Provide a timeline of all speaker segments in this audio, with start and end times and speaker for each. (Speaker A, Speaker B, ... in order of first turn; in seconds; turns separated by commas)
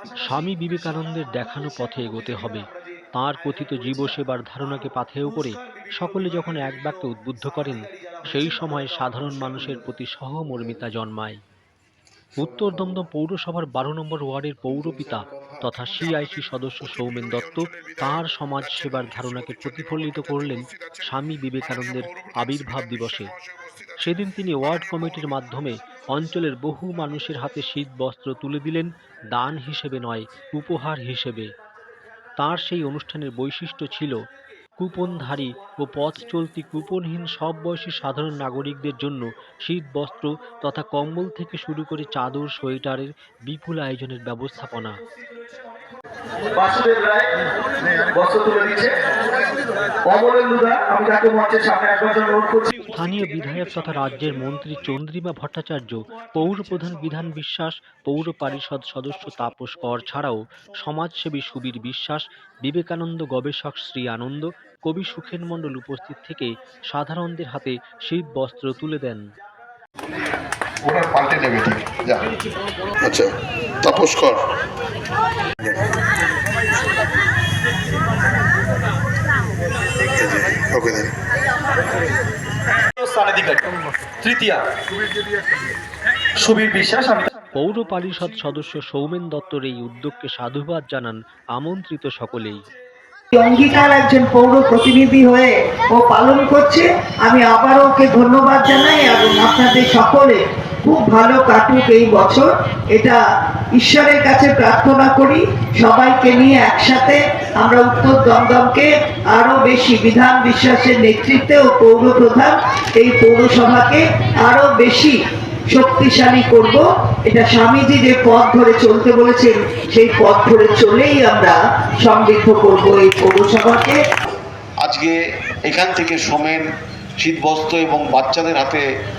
Speaker A: 0.2-11.4, Speaker A: 12.4-23.3, Speaker A: 24.0-31.5, Speaker A: 32.4-34.2, Speaker A: 34.8-45.0, Speaker B: 46.5-47.4, Speaker B: 48.1-49.0, Speaker B: 50.0-52.7, Speaker A: 52.9-69.3, Speaker C: 70.9-72.2, Speaker B: 71.1-71.5, Speaker C: 73.0-73.3, Speaker C: 73.8-74.4, Speaker B: 73.9-74.3, Speaker C: 80.2-81.1, Speaker B: 82.9-84.7, Speaker B: 86.4-87.3, Speaker A: 87.5-92.7, Speaker D: 93.3-103.2, Speaker D: 103.8-115.2, Speaker D: 115.7-124.0, Speaker C: 124.8-126.6, Speaker C: 127.2-128.8